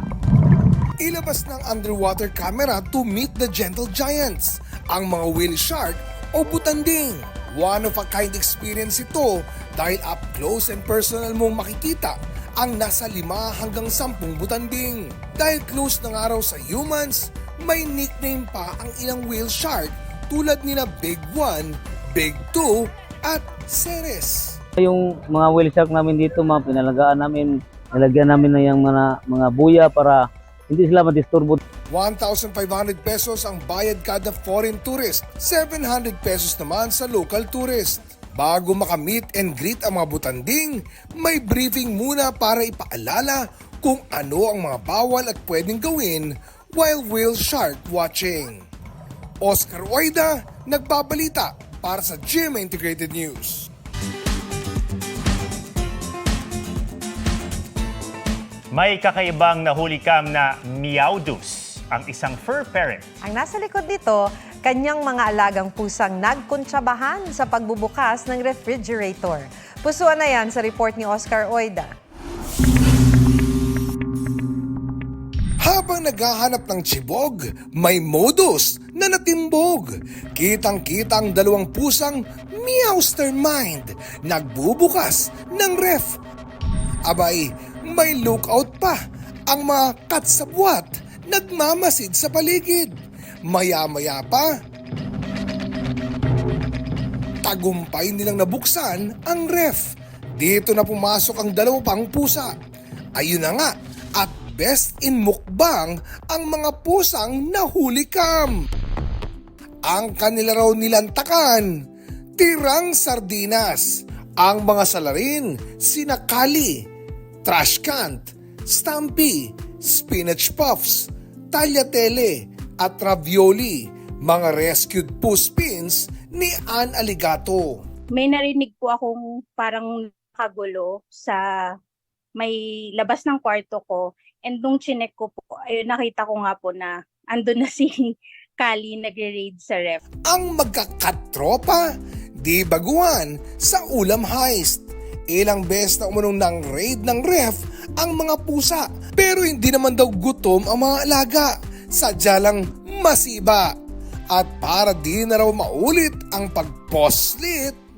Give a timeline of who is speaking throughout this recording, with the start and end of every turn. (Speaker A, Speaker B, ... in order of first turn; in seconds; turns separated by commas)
Speaker A: 1.0-24.6, Speaker B: 24.8-31.6, Speaker A: 31.9-48.6, Speaker A: 49.4-53.7, Speaker C: 58.7-63.0, Speaker D: 63.2-71.9, Speaker A: 75.6-86.2, Speaker A: 87.1-89.0, Speaker A: 89.5-92.9, Speaker A: 93.5-94.5, Speaker A: 97.4-102.5, Speaker A: 103.2-108.5, Speaker A: 109.9-111.7, Speaker A: 112.4-116.8, Speaker A: 117.4-127.8, Speaker E: 128.1-131.4, Speaker E: 132.4-140.0, Speaker A: 140.3-141.8, Speaker A: 142.4-153.7, Speaker A: 154.3-157.8